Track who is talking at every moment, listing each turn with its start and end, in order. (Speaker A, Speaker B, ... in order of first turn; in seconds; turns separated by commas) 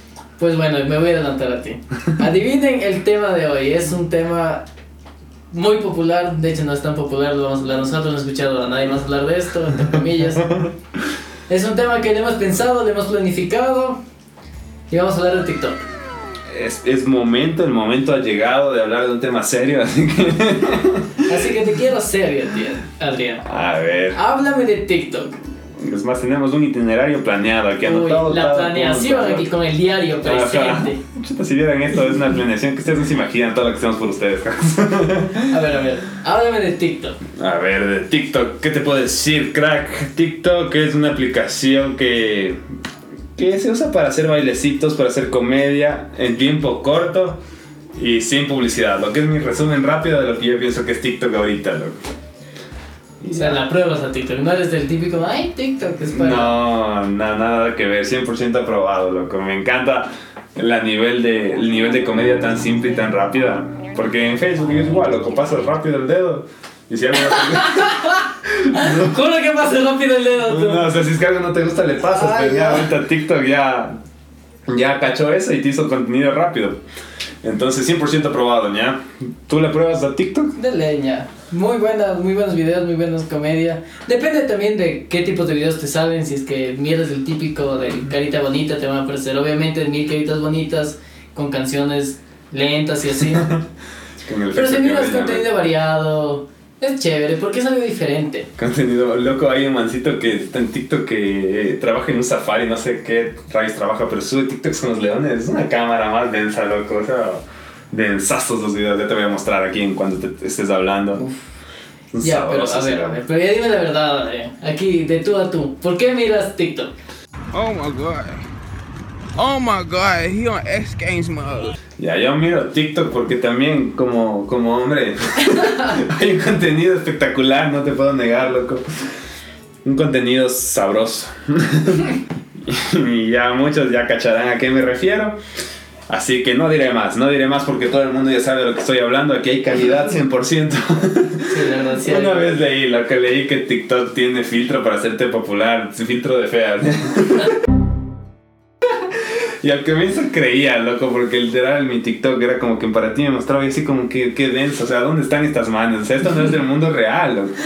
Speaker A: 0.4-4.6, Speaker A: 5.5-10.7, Speaker A: 11.5-14.0, Speaker A: 14.9-15.8, Speaker B: 16.5-21.2, Speaker A: 21.3-23.4, Speaker B: 23.4-24.2, Speaker A: 24.1-25.4, Speaker B: 25.8-29.5, Speaker A: 27.8-31.0, Speaker B: 30.2-35.5, Speaker A: 35.5-37.2, Speaker B: 37.4-42.6, Speaker B: 43.4-47.4, Speaker B: 48.0-52.0, Speaker B: 53.2-53.6, Speaker A: 53.3-56.6, Speaker B: 56.1-67.9, Speaker A: 67.3-70.8, Speaker B: 68.7-69.1, Speaker B: 70.5-73.9, Speaker A: 72.1-72.9, Speaker B: 74.7-76.8, Speaker B: 77.4-80.5, Speaker A: 80.5-93.5, Speaker B: 93.3-93.6, Speaker B: 94.2-95.5, Speaker A: 94.5-98.5, Speaker B: 98.6-111.2, Speaker B: 112.1-113.2, Speaker A: 112.2-116.9, Speaker C: 117.5-118.5, Speaker C: 119.3-121.8, Speaker B: 122.0-128.8, Speaker B: 129.8-135.4, Speaker B: 136.1-147.5, Speaker A: 141.5-142.5, Speaker B: 149.6-157.5